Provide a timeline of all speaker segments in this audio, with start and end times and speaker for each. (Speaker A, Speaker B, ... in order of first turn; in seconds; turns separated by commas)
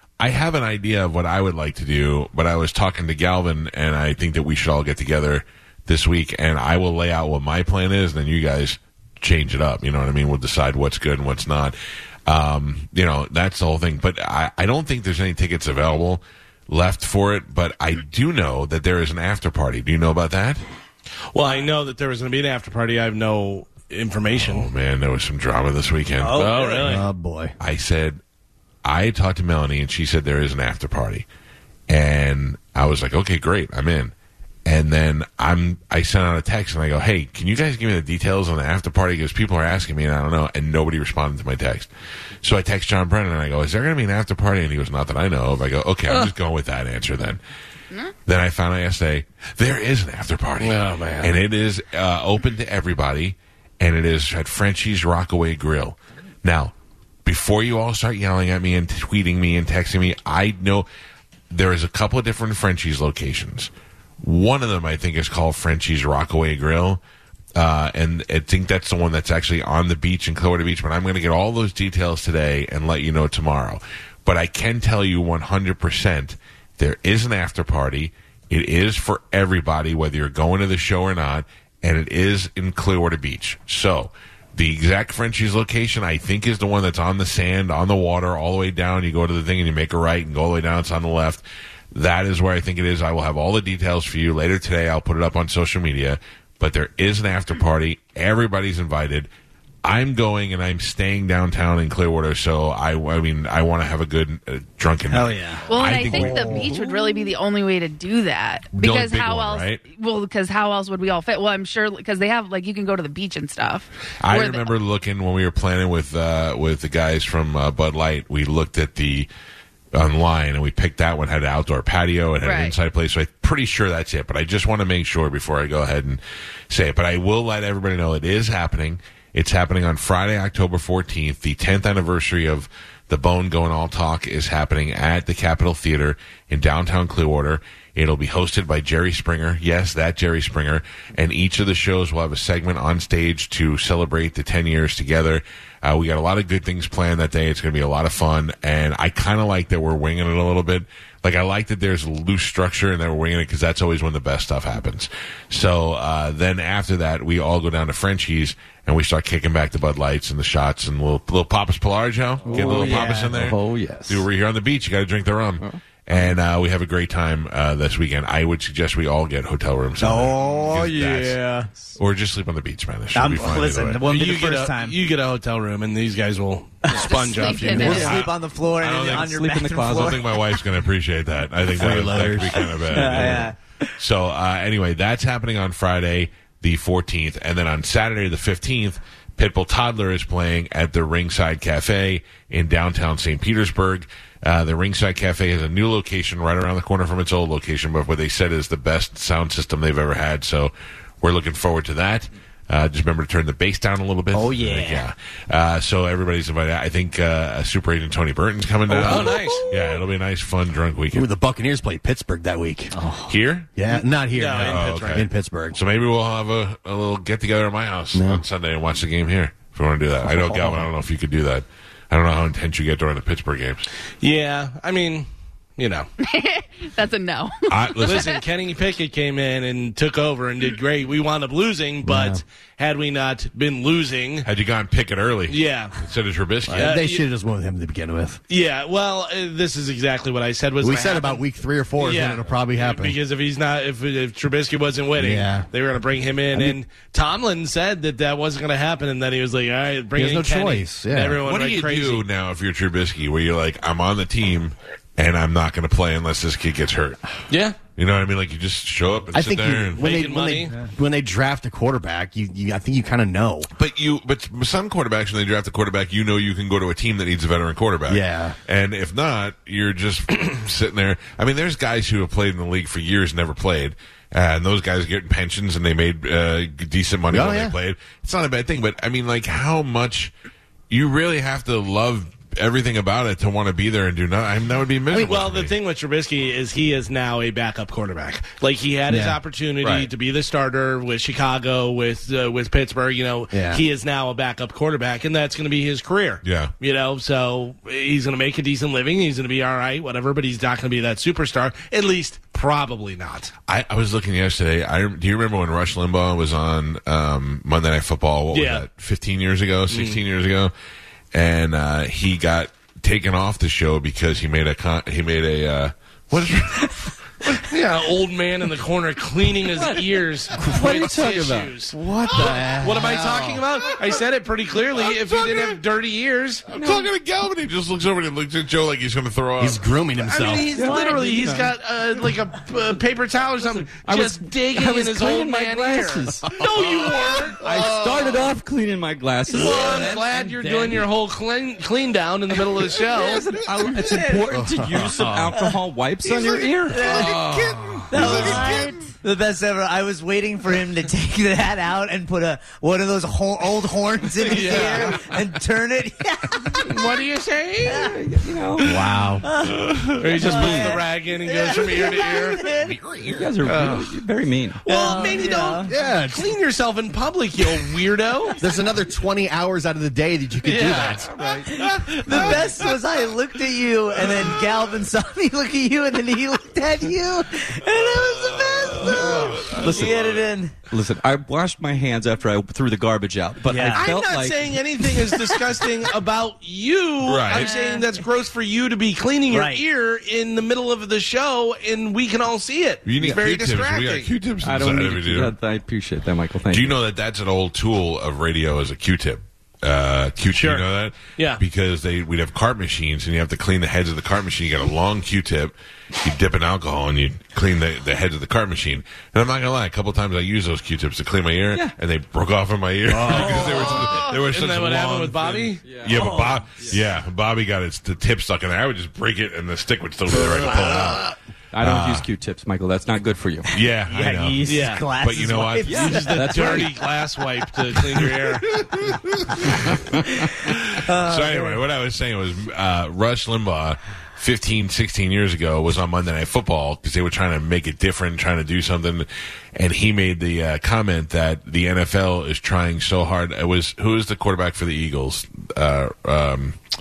Speaker A: 0.2-20.6, Speaker B: 21.3-24.7, Speaker A: 24.4-26.5, Speaker C: 26.2-27.0, Speaker B: 26.4-27.1, Speaker D: 26.8-27.5, Speaker A: 27.6-28.2, Speaker A: 28.8-31.3, Speaker A: 31.9-34.1, Speaker A: 34.6-41.9, Speaker A: 42.4-47.4, Speaker A: 48.3-56.7, Speaker B: 50.6-51.4, Speaker A: 57.2-60.9, Speaker A: 61.5-67.0, Speaker A: 67.5-99.3, Speaker A: 99.8-106.7, Speaker C: 105.1-106.7, Speaker E: 105.7-114.7, Speaker A: 108.7-109.8, Speaker A: 114.2-119.3, Speaker A: 119.9-171.4, Speaker E: 122.4-122.8, Speaker F: 162.5-164.2, Speaker C: 162.5-163.4, Speaker C: 170.0-171.7, Speaker F: 170.6-171.3, Speaker A: 172.0-174.0, Speaker C: 173.1-175.0, Speaker B: 174.1-178.2, Speaker C: 176.8-180.5, Speaker E: 177.0-178.2, Speaker A: 177.8-211.3, Speaker F: 179.2-180.2, Speaker D: 181.7-183.4, Speaker C: 182.6-183.6, Speaker C: 204.3-205.1, Speaker B: 208.9-209.6, Speaker D: 211.1-212.9, Speaker C: 212.9-213.3, Speaker A: 213.3-213.7, Speaker D: 213.8-215.8, Speaker B: 214.3-215.3, Speaker A: 214.7-223.8, Speaker D: 218.1-218.4, Speaker B: 224.2-225.3, Speaker B: 225.8-226.1, Speaker E: 226.2-228.4, Speaker A: 227.7-228.4, Speaker B: 228.0-234.5, Speaker D: 232.1-232.4, Speaker A: 234.4-237.0, Speaker B: 235.5-236.0, Speaker D: 236.7-238.4, Speaker B: 236.8-237.2, Speaker B: 238.5-241.4, Speaker D: 240.8-243.2, Speaker B: 242.0-252.2, Speaker D: 245.2-245.7, Speaker D: 250.2-251.4, Speaker A: 251.4-257.2, Speaker B: 257.5-257.8, Speaker A: 258.0-260.1, Speaker D: 259.3-263.7, Speaker B: 260.0-260.7, Speaker A: 263.8-280.3, Speaker D: 268.1-268.6, Speaker D: 277.3-277.8, Speaker A: 280.9-285.8, Speaker B: 285.1-303.5, Speaker D: 289.1-289.4, Speaker A: 289.8-290.1, Speaker D: 293.5-293.8, Speaker A: 296.4-296.7, Speaker A: 303.7-310.7, Speaker B: 308.5-308.9, Speaker B: 309.9-310.2, Speaker A: 311.3-317.6, Speaker B: 317.5-326.7, Speaker F: 319.8-321.8, Speaker D: 321.9-323.6, Speaker A: 325.0-325.8, Speaker A: 326.7-329.9, Speaker D: 329.6-330.9, Speaker B: 330.2-338.0, Speaker F: 330.7-331.7, Speaker F: 333.9-336.6, Speaker D: 336.5-338.5, Speaker F: 337.6-341.0, Speaker B: 339.5-343.5, Speaker F: 343.0-347.5, Speaker C: 343.9-344.5, Speaker D: 344.2-345.6, Speaker C: 346.9-347.4, Speaker B: 347.1-348.8, Speaker D: 347.3-347.6, Speaker C: 348.1-357.0, Speaker E: 348.2-349.1, Speaker F: 348.3-348.7, Speaker B: 354.4-355.2, Speaker B: 356.9-358.1, Speaker C: 357.9-358.1, Speaker F: 357.9-359.1, Speaker D: 358.8-359.5, Speaker C: 359.4-359.8, Speaker A: 359.9-360.2, Speaker B: 360.2-362.6, Speaker C: 360.4-362.9, Speaker F: 360.5-361.0, Speaker A: 362.7-363.5, Speaker F: 363.3-365.1, Speaker B: 363.6-364.1, Speaker B: 364.8-368.6, Speaker C: 364.9-365.9, Speaker D: 365.9-366.5, Speaker D: 368.6-372.8, Speaker B: 370.6-371.5, Speaker C: 371.7-380.7, Speaker A: 378.5-380.2, Speaker F: 379.1-380.1, Speaker F: 380.9-385.6, Speaker C: 383.6-384.1, Speaker B: 383.9-394.3, Speaker A: 387.2-387.7, Speaker E: 387.5-388.1, Speaker C: 389.5-389.8, Speaker A: 393.1-395.5, Speaker F: 394.6-396.9, Speaker A: 396.7-422.3, Speaker B: 400.5-401.6, Speaker B: 413.2-415.8, Speaker D: 413.2-413.9, Speaker E: 413.8-414.4, Speaker F: 415.8-417.0, Speaker D: 420.7-421.2, Speaker F: 421.7-423.7, Speaker A: 423.7-426.3, Speaker C: 424.1-426.9, Speaker B: 424.6-425.1, Speaker F: 425.8-427.1, Speaker B: 426.0-428.8, Speaker A: 428.7-446.8, Speaker C: 431.1-431.8